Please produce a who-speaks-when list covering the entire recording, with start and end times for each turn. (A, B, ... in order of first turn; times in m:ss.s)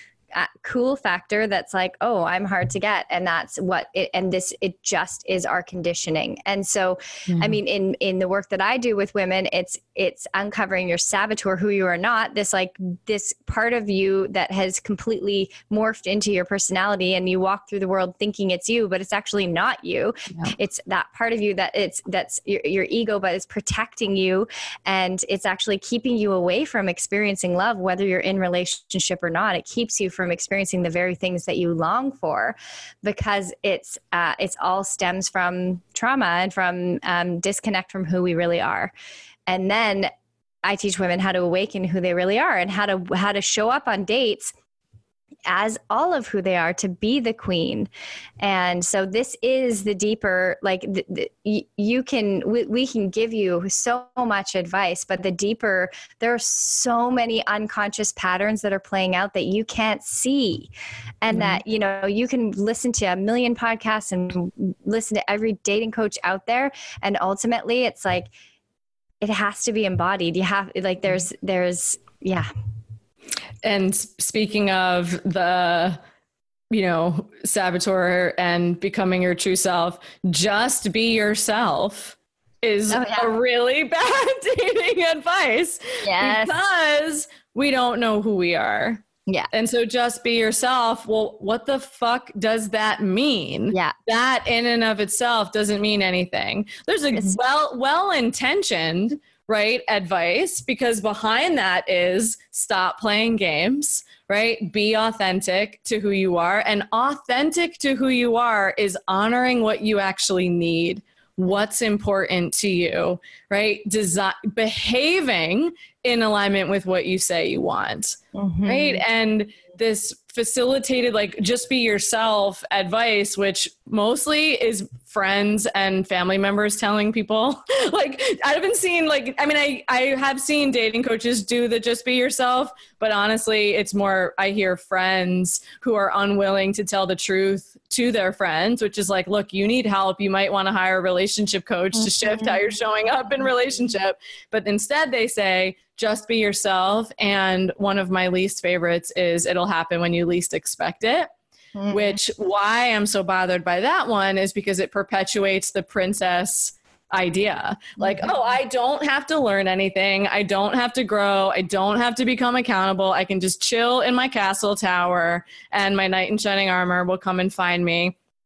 0:00.3-0:38.9 A
0:07.3-0:07.6 B
0:39.5-0:40.1 A
0:40.6-0:44.5 A
0:45.5-0:47.9 A
0:48.4-1:00.7 A
1:01.2-1:08.3 A
1:01.3-1:01.6 B
1:09.2-1:12.5 A
1:13.6-1:16.0 B
1:16.7-2:31.3 B
1:22.9-1:23.3 A
1:26.0-1:26.6 A
1:58.3-1:59.0 A
2:22.0-2:22.6 A
2:31.8-2:32.2 A
2:31.9-2:48.2 B
2:38.0-2:38.4 A